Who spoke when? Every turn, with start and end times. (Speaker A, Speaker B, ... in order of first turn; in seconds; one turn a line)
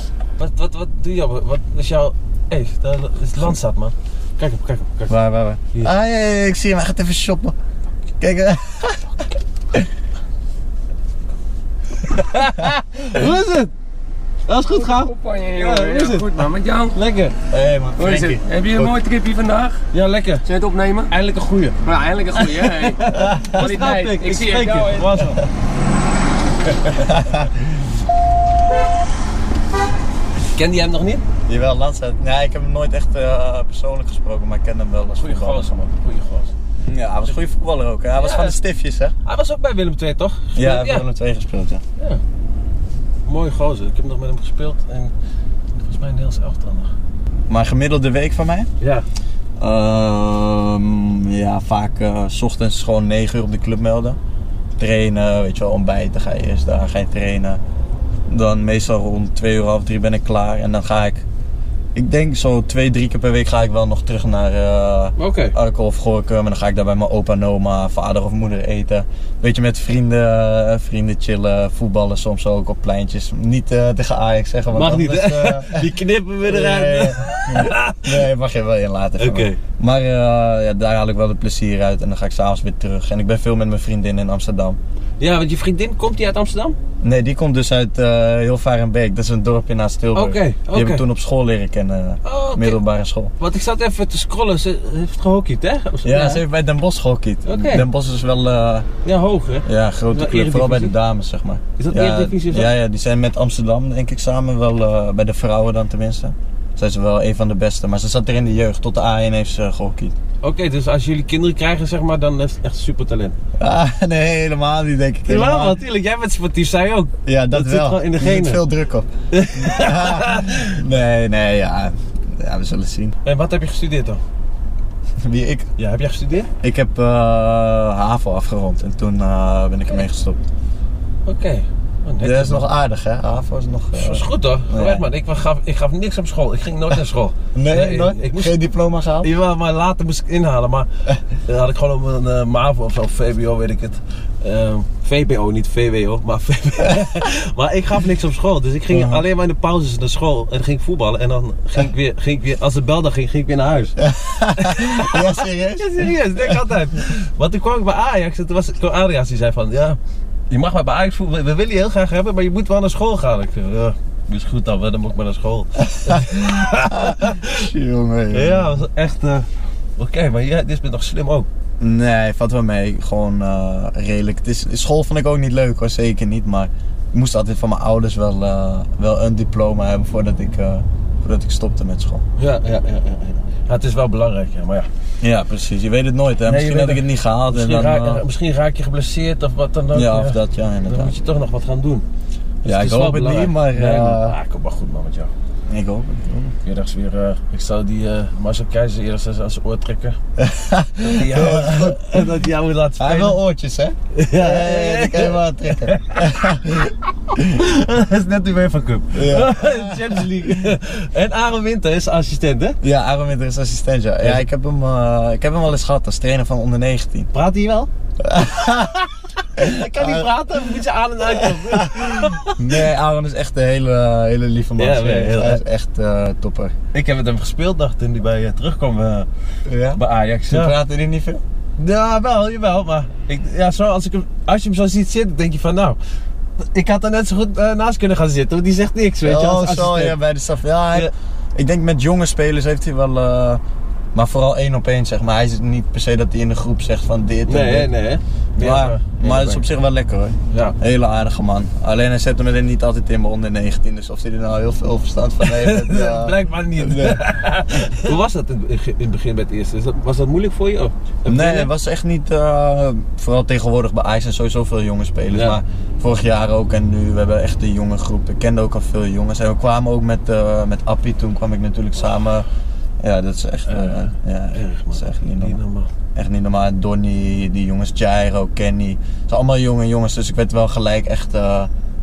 Speaker A: 0.4-5.2
Speaker B: 5.1-7.5
Speaker B: 8.2-9.1
Speaker A: 12.0-13.7
Speaker A: 14.5-17.4
Speaker C: 14.6-17.0
Speaker B: 17.5-19.0
Speaker C: 17.9-19.8
Speaker A: 19.9-20.4
Speaker C: 20.4-21.1
Speaker A: 21.1-25.5
Speaker C: 21.8-25.4
Speaker B: 23.1-23.6
Speaker B: 26.9-27.6
Speaker A: 30.4-31.2
Speaker B: 31.5-35.8
Speaker A: 35.2-36.5
Speaker B: 36.8-39.1
Speaker A: 38.1-38.6
Speaker A: 39.2-41.0
Speaker B: 40.5-41.8
Speaker A: 43.2-45.1
Speaker A: 45.7-46.9
Speaker B: 47.5-48.7
Speaker A: 48.8-49.0
Speaker B: 49.6-54.2
Speaker B: 54.8-57.6
Speaker B: 58.3-61.2
Speaker B: 61.9-84.8
Speaker A: 65.2-65.5
Speaker A: 74.7-78.3
Speaker A: 79.2-79.6
Speaker A: 85.2-86.8
Speaker B: 87.0-93.3
Speaker A: 90.1-91.0
Speaker A: 92.2-92.8
Speaker A: 93.4-96.4
Speaker B: 96.0-98.9
Speaker A: 97.5-97.8
Speaker A: 99.0-100.9
Speaker B: 99.6-110.2
Speaker A: 101.8-102.7
Speaker A: 110.4-113.3
Speaker B: 113.6-115.8
Speaker A: 115.3-118.6
Speaker B: 117.2-123.2
Speaker A: 119.3-120.7
Speaker A: 123.2-124.2
Speaker B: 125.2-125.7
Speaker A: 125.8-126.5
Speaker B: 126.6-130.4
Speaker A: 131.2-132.7
Speaker B: 132.2-135.1
Speaker A: 133.9-138.6
Speaker B: 137.5-139.3
Speaker A: 139.2-154.0
Speaker B: 148.9-149.2
Speaker B: 154.0-156.6
Speaker A: 154.6-160.0
Speaker A: 160.5-167.7
Speaker B: 165.8-168.8
Speaker A: 168.3-171.5
Speaker B: 171.8-182.2
Speaker A: 182.4-184.9
Speaker B: 185.2-188.2
Speaker A: 186.4-192.0
Speaker B: 189.9-191.1
Speaker A: 192.6-195.3
Speaker B: 192.6-194.3
Speaker B: 195.7-196.5
Speaker A: 196.6-200.2
Speaker B: 200.4-202.3
Speaker A: 201.0-203.4
Speaker B: 203.0-207.4
Speaker A: 204.1-212.8
Speaker B: 209.1-210.3
Speaker B: 212.8-217.3
Speaker A: 214.2-214.4
Speaker A: 217.3-217.9
Speaker B: 218.2-220.3
Speaker A: 219.6-222.8
Speaker B: 221.3-226.7
Speaker A: 224.8-225.6
Speaker A: 226.9-229.3
Speaker B: 229.7-231.4
Speaker A: 229.9-230.7
Speaker A: 231.8-236.0
Speaker A: 236.6-240.2
Speaker B: 239.2-243.6
Speaker B: 244.1-247.9
Speaker A: 247.5-249.6
Speaker B: 248.6-258.0
Speaker A: 250.5-250.8
Speaker A: 255.4-261.7
Speaker B: 261.2-272.4
Speaker A: 265.3-265.6
Speaker B: 273.0-275.6
Speaker A: 273.6-275.9
Speaker B: 276.1-281.7